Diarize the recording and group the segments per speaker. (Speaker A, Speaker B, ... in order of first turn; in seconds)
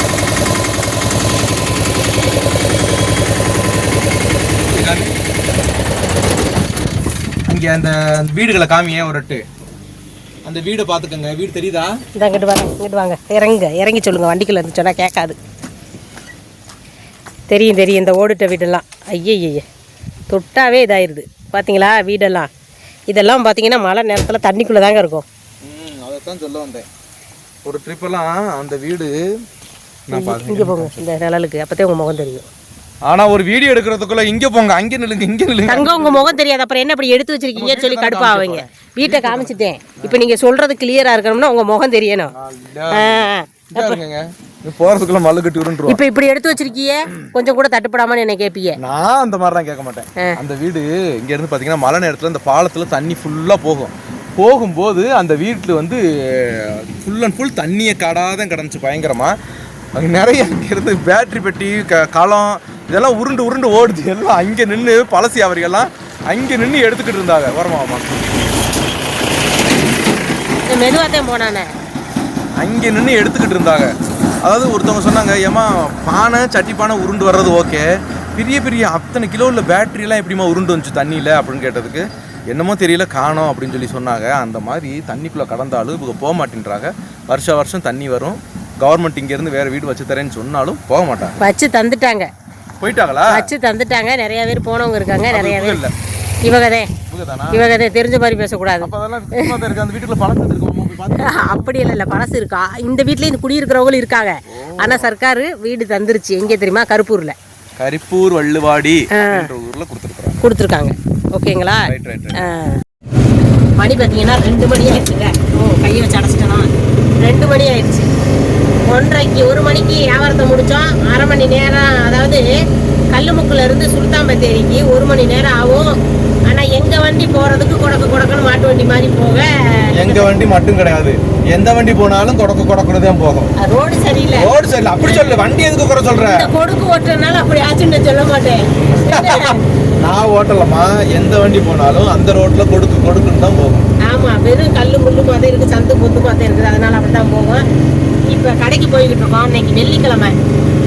Speaker A: 4.7-5.1, 7.5-9.4, 10.4-11.9, 25.6-26.9, 27.6-29.2, 30.1-31.0, 33.1-36.3, 37.5-40.2, 42.3-46.0, 48.8-59.3, 60.0-68.2, 72.6-91.3, 92.8-93.4, 95.3-95.9, 97.1-97.7, 98.8-101.7, 104.5-105.1, 107.8-110.4, 111.8-112.4, 129.9-133.5, 134.3-136.5, 138.8-143.8
Speaker B: 12.2-15.3, 17.5-19.6, 20.3-22.5, 23.1-25.2, 30.1-32.5, 35.7-42.3, 42.9-44.0, 45.9-48.8, 70.6-71.7, 91.4-92.3, 93.3-95.8, 96.4-96.9, 97.5-99.5, 101.2-107.3, 109.1-109.5, 110.4-112.8, 113.8-116.7, 117.2-118.1, 118.9-122.5, 123.1-126.0, 126.5-130.3, 133.6-134.5, 135.0-135.4, 136.2-139.6, 144.1-147.6, 148.3-150.3